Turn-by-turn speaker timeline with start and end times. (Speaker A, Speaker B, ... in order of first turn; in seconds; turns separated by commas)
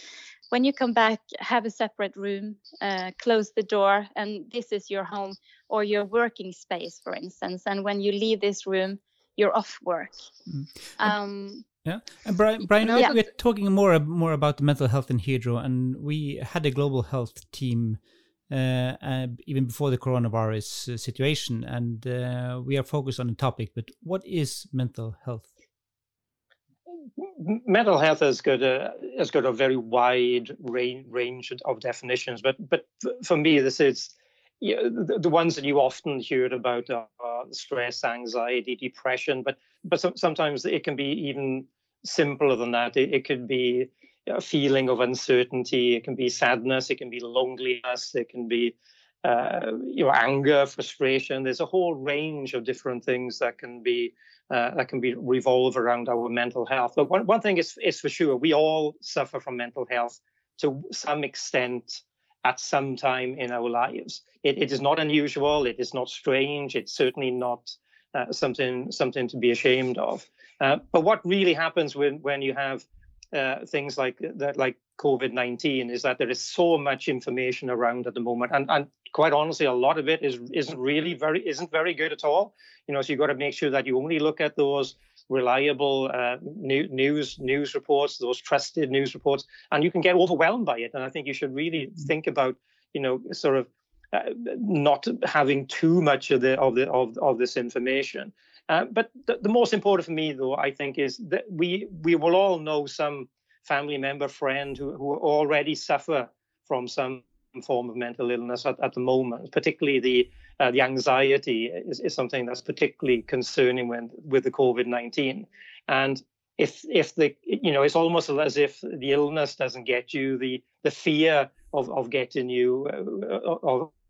Speaker A: 0.5-10.3, Speaker B: 10.5-11.1, Speaker A: 11.0-11.6, Speaker B: 11.8-25.5, Speaker A: 12.9-13.2, Speaker C: 27.2-123.9